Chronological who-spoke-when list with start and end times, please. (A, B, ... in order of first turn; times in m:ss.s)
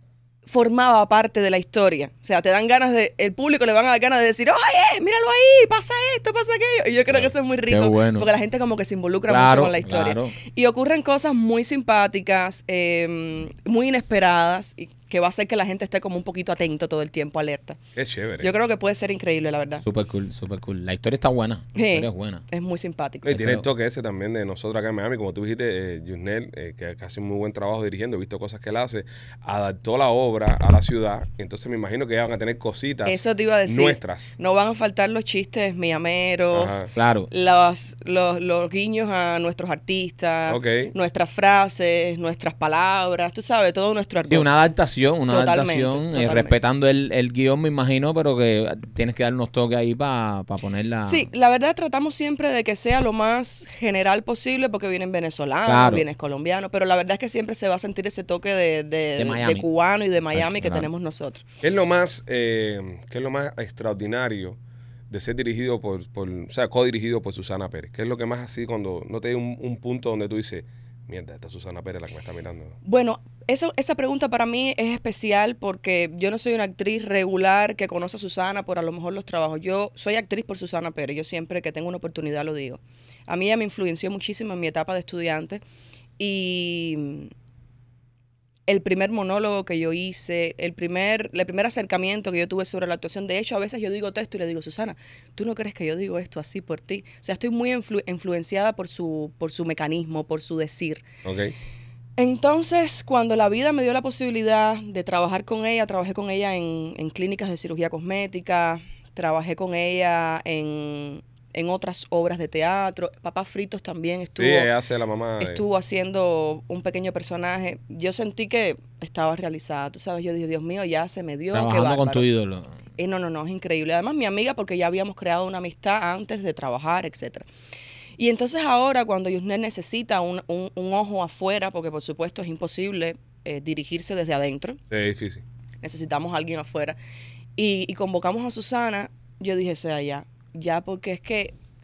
0:00.5-0:17.8 A
0:07.1-0:08.3 B
0:09.3-0:10.4 B
0:18.0-0:18.5 C
0:18.4-0:19.8 A
0:19.8-0:22.4 B
0:21.7-0:23.4 A
0:23.2-0:34.3 C
0:23.3-0:23.6 B
0:33.0-0:44.5 A
0:36.5-0:36.9 C
0:36.9-0:37.3 B
0:40.5-0:40.9 C
0:44.3-0:51.3 B
0:45.3-0:46.6 A
0:51.0-1:01.4 A
0:55.7-0:56.0 B
0:59.2-0:59.6 B
1:00.3-1:00.9 B
1:01.6-1:04.6 C
1:05.1-1:12.7 C
1:12.8-1:25.6 A
1:26.2-1:27.3 A
1:28.7-1:41.0 A
1:41.2-1:41.5 C
1:42.2-1:54.7 A
1:54.4-1:55.6 C
1:55.4-2:02.2 A
2:01.5-2:02.7 B
2:03.0-2:07.4 A
2:08.2-2:14.8 A
2:14.9-2:15.4 C
2:15.8-2:17.0 A
2:17.6-2:21.5 A